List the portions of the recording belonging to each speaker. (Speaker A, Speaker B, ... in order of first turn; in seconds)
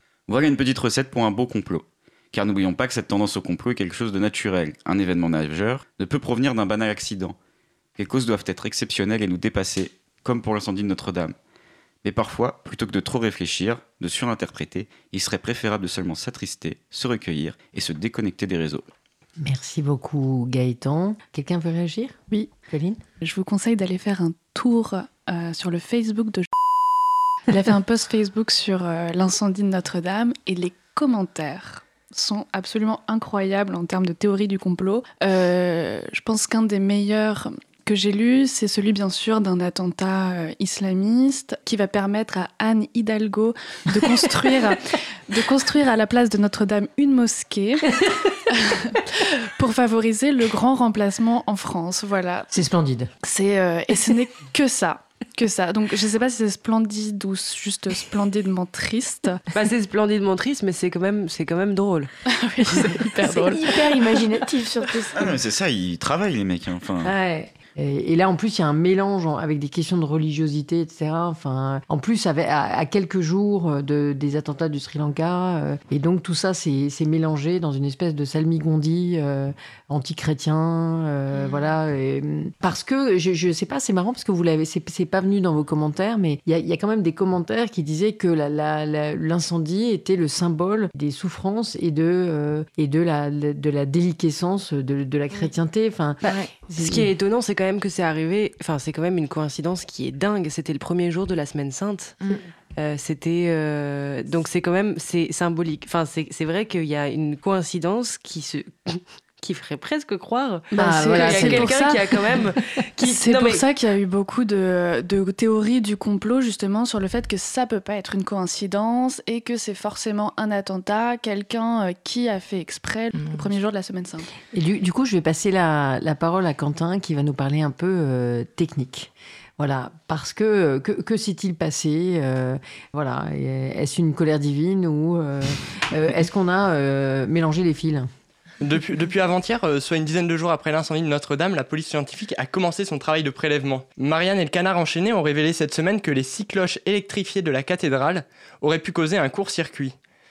Speaker A: 0.3-7.3, 8.0-11.3, 12.0-18.9, 65.1-67.1
Speaker B: 19.4-23.0, 52.5-53.1, 67.0-97.1, 110.8-111.8, 124.5-138.1
Speaker C: 23.2-26.5, 27.5-52.5, 53.2-59.5, 62.3-64.4, 110.7-124.3
Speaker D: 59.5-62.1, 96.8-102.2, 102.8-113.6
Speaker E: 63.2-65.3, 96.2-96.5, 123.1-123.5
Speaker F: 138.6-149.9